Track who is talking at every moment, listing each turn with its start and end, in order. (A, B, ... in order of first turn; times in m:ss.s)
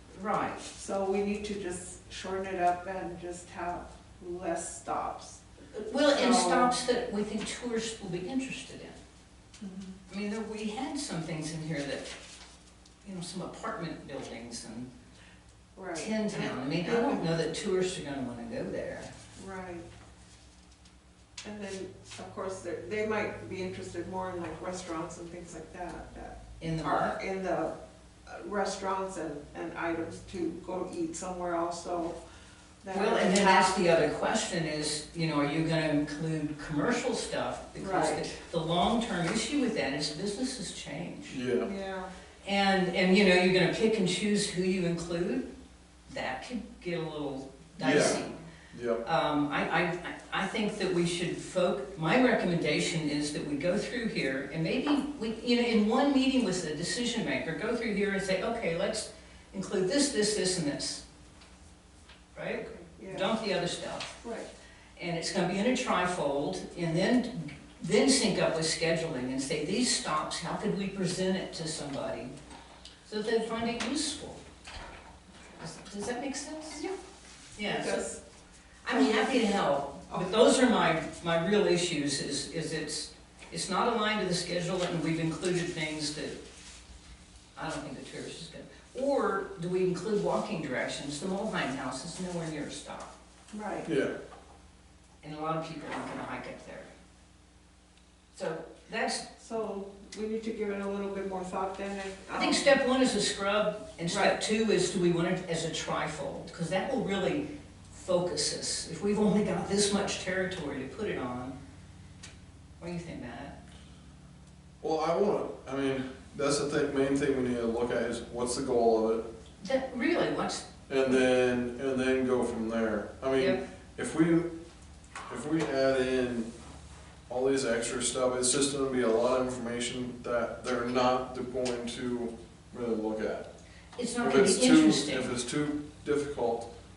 0:00.1-0:00.6 A
0:00.7-0:05.4 B
0:05.7-0:09.0 A
0:06.1-0:06.7 B
0:09.6-0:10.0 B
0:10.1-0:12.1 A
0:13.0-0:14.9 A
0:15.7-0:17.4 B
0:16.0-0:19.1 A
0:19.4-0:19.9 B
0:21.4-0:27.7 B
0:26.6-0:27.2 A
0:28.2-0:32.2 B
0:32.8-0:33.8 B
0:32.9-0:41.4 A
0:37.8-0:38.3 B
0:41.3-0:41.7 C
0:41.6-0:42.1 B
0:42.4-0:45.4 A
0:46.1-0:48.4 A
0:47.8-0:49.0 C
0:47.8-0:48.1 B
0:49.0-1:01.0 A
1:02.3-1:04.2 A
1:02.5-1:03.3 B
1:04.2-1:04.5 B
1:05.0-1:12.3 A
1:13.0-1:14.4 A
1:15.6-1:16.8 A
1:17.6-1:18.0 A
1:17.6-1:18.2 B
1:18.8-1:26.4 A
1:18.9-1:20.4 B
1:27.5-1:33.1 A
1:33.5-1:33.9 B
1:33.8-1:34.1 C
1:35.2-1:36.9 A
1:38.3-1:39.2 A
1:39.4-1:42.8 B
1:42.3-1:51.5 A
1:44.1-1:44.4 B
1:52.8-1:53.6 A
1:54.8-1:59.2 C
1:59.6-2:00.6 A
2:00.9-2:04.5 C
2:05.3-2:06.5 C
2:07.3-2:13.5 C
2:14.0-2:15.3 A
2:14.2-2:16.7 C